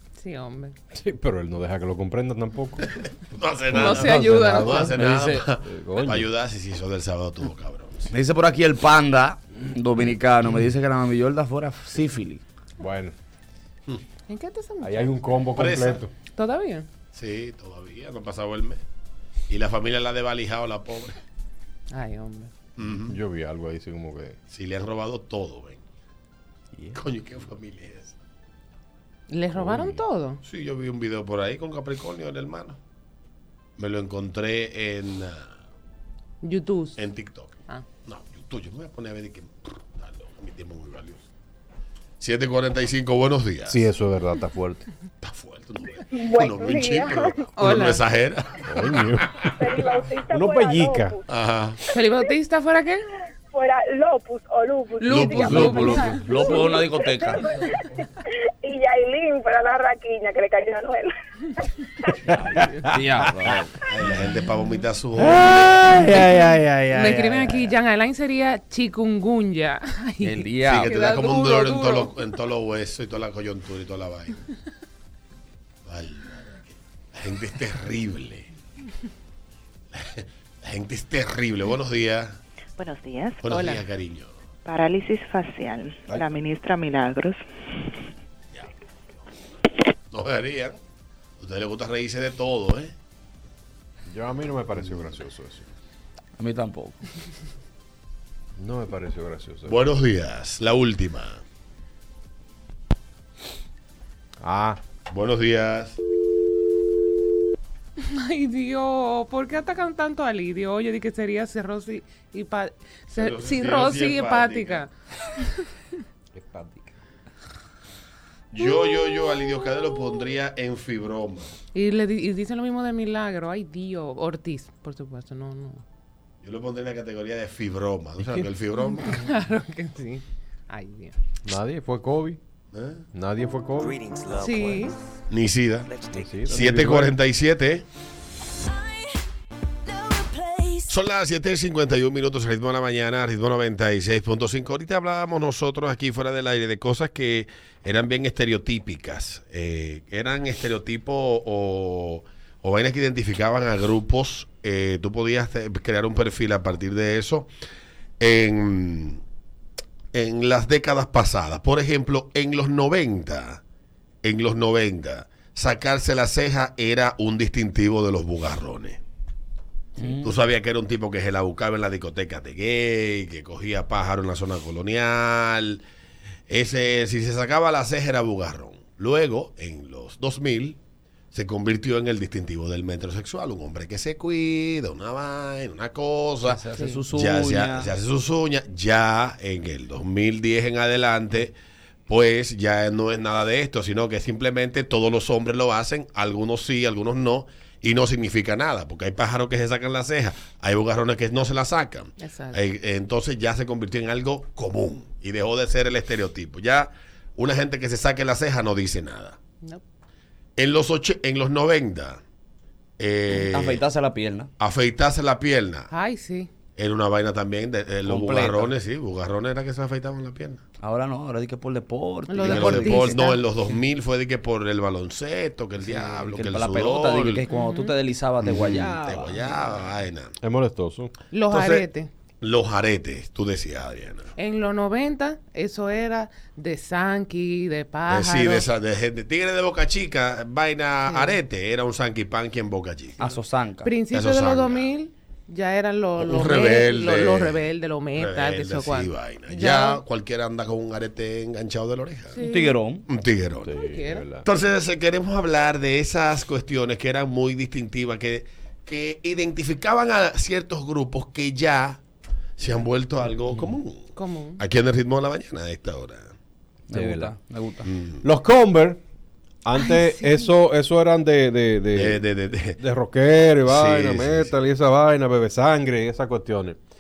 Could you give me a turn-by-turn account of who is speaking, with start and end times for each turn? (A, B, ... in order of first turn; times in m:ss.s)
0:00.2-0:00.7 A
0:00.9-0:02.8 B
0:03.3-0:08.1 C
0:03.7-0:04.9 A
0:03.9-0:04.8 B
0:04.8-0:05.4 D
0:05.6-0:06.3 B
0:08.1-0:12.4 D
0:12.8-0:13.1 B
0:14.3-0:15.1 A
0:14.8-0:16.1 B
0:15.6-0:16.0 C
0:16.3-0:16.9 A
0:17.1-0:18.8 C
0:19.5-0:21.2 C
0:21.9-0:22.5 A
0:22.8-0:23.1 C
0:23.0-0:24.4 B
0:24.5-0:25.8 C
0:26.9-0:28.1 C
0:29.3-0:30.4 A
0:29.5-0:30.0 B
0:30.4-0:32.8 C
0:33.8-0:35.5 C
0:36.4-0:37.0 A
0:37.0-0:41.2 C
0:42.2-0:43.8 C
0:43.7-0:44.8 B
0:45.2-0:48.6 C
0:46.1-0:47.5 E
0:47.5-0:48.0 A
0:48.7-0:49.3 B
0:49.6-0:51.2 E
0:50.3-0:51.2 B
0:51.3-0:51.8 C
0:51.9-0:53.0 A
0:53.5-0:55.6 E
0:55.0-0:56.4 A
0:55.1-0:56.0 C
0:55.1-0:57.4 D
0:56.3-0:57.3 E
0:58.6-1:01.1 E
1:02.8-1:03.7 D
1:03.8-1:06.0 C
1:05.2-1:07.7 D
1:06.9-1:12.1 A
1:10.2-1:11.0 D
1:10.7-1:14.4 C
1:15.9-1:18.5 C
1:19.9-1:22.4 C
1:22.8-1:23.4 F
1:23.4-1:24.3 C
1:23.5-1:23.8 A
1:24.6-1:27.4 F
1:30.1-1:30.8 C
1:31.4-1:32.9 C
1:34.1-1:35.7 B
1:36.4-1:37.0 D
1:38.6-1:39.8 B
1:39.7-1:41.4 C
1:44.4-1:44.8 B
1:45.1-1:46.0 C
1:48.0-1:54.9 A
1:53.1-1:54.8 C
1:56.3-1:56.9 B
1:58.5-2:01.5 C
2:01.7-2:05.8 A
2:06.4-2:09.2 C
2:08.8-2:11.2 A
2:11.4-2:12.4 B
2:12.7-2:13.0 C
2:13.1-2:14.0 B
2:14.4-2:14.9 A
2:15.3-2:15.9 C
2:16.1-2:17.2 B
2:16.5-2:17.8 C
2:20.9-2:37.5 C
2:38.2-2:39.2 C
2:40.1-2:43.6 C
2:44.2-2:49.0 C
2:50.0-2:50.3 D
2:50.2-2:55.8 C
2:56.5-3:00.8 C
3:01.3-3:11.5 C
3:06.4-3:07.9 D
3:12.1-3:29.4 C
3:22.2-3:22.6 A
3:30.6-3:32.2 C
3:33.0-3:33.8 C
3:33.3-3:34.5 D
3:34.6-3:35.9 C
3:35.9-3:36.5 A
3:36.8-3:40.6 C
3:38.1-3:38.7 D
3:40.8-3:43.3 D
3:42.3-3:43.4 A
3:42.4-3:47.4 C
3:45.8-3:49.5 D
3:47.5-3:47.9 A
3:48.4-3:50.3 C
3:50.4-3:51.1 B
3:51.3-3:52.1 A
3:51.5-3:51.9 C
3:52.4-3:54.3 C
3:54.4-3:58.7 A
3:58.1-4:03.2 C
4:01.1-4:01.4 A
4:03.2-4:03.9 D
4:03.8-4:10.0 A
4:04.1-4:04.9 C
4:06.2-4:12.4 C
4:12.3-4:12.8 A
4:12.4-4:13.0 D
4:13.1-4:13.8 C
4:13.6-4:14.4 B
4:13.8-4:14.2 A
4:14.4-4:22.0 C
4:22.6-4:26.3 C
4:24.1-4:24.6 A
4:26.9-4:27.9 D
4:26.9-4:27.3 B
4:27.8-4:28.2 C
4:28.2-4:29.0 B
4:29.6-4:32.2 B
4:29.7-4:30.5 A
4:31.9-4:32.8 C
4:32.8-4:36.8 B
4:33.7-4:34.5 C